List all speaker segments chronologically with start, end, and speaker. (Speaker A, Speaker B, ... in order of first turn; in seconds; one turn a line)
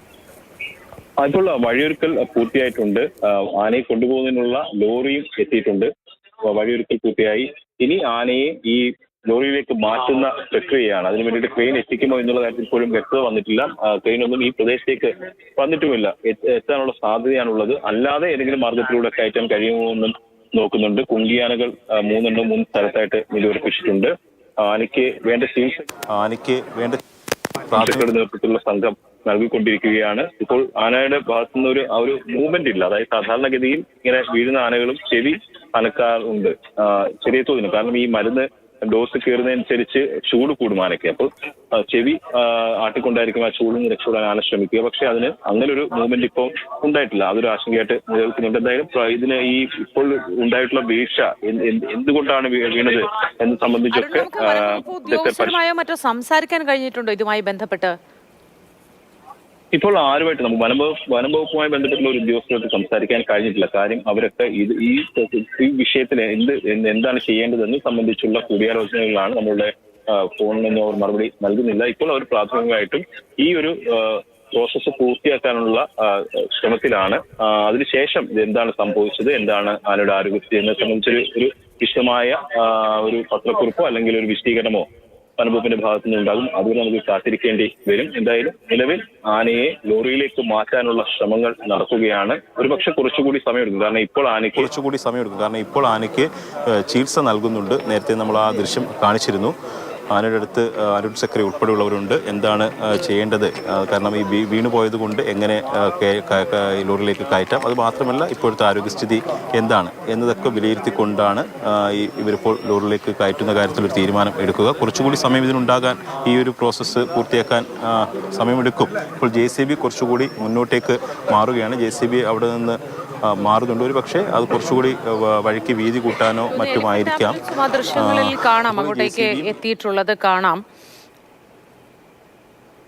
Speaker A: 1.2-5.9
Speaker A: 6.5-24.1
Speaker A: 24.6-25.8
Speaker B: 26.1-27.0
Speaker B: 27.7-28.1
Speaker A: 27.8-55.5
Speaker C: 53.9-57.9
Speaker A: 59.7-84.9
Speaker A: 85.4-94.7
Speaker B: 94.5-99.5
Speaker B: 100.1-127.4
Speaker C: 126.5-130.6
Speaker B: 127.9-129.5